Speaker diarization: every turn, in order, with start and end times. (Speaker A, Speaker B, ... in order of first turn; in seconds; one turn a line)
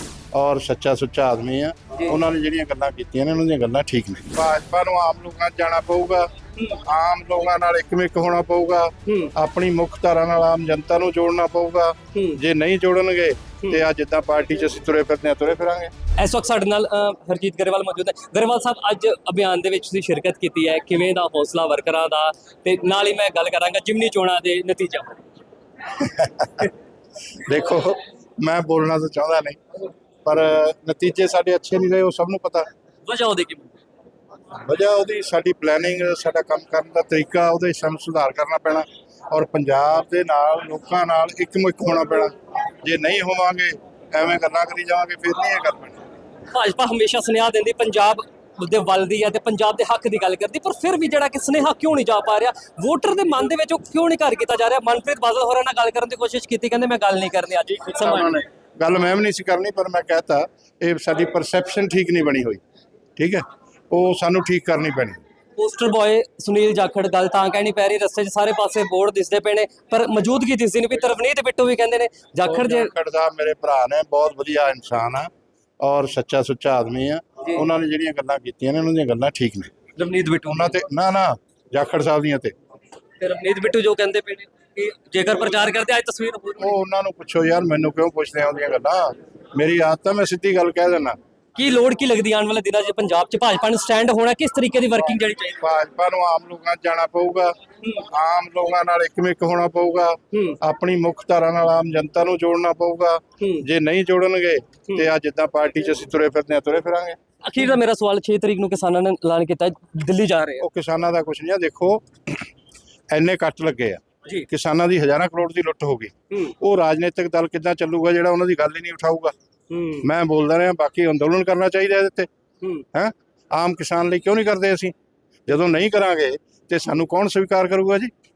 Speaker A: 0.3-15.9
Speaker B: 16.2-25.2
Speaker A: 26.0-26.7
Speaker A: 27.3-29.6
Speaker A: 30.2-32.7
Speaker B: 33.0-33.7
Speaker A: 34.5-46.0
Speaker B: 46.5-58.4
Speaker A: 57.9-62.6
Speaker A: 63.1-65.2
Speaker B: 65.6-72.9
Speaker A: 72.4-75.3
Speaker A: 75.8-79.7
Speaker B: 80.0-80.8
Speaker A: 80.5-82.5
Speaker B: 83.2-86.8
Speaker A: 86.6-91.2
Speaker B: 91.5-95.6
Speaker A: 95.6-107.2
Speaker B: 100.3-100.6
Speaker B: 103.4-103.6
Speaker B: 107.4-110.6
Speaker A: 110.6-112.0
Speaker A: 113.1-119.3
Speaker B: 119.7-120.1
Speaker A: 120.0-122.3
Speaker A: 122.9-124.9
Speaker A: 125.5-128.1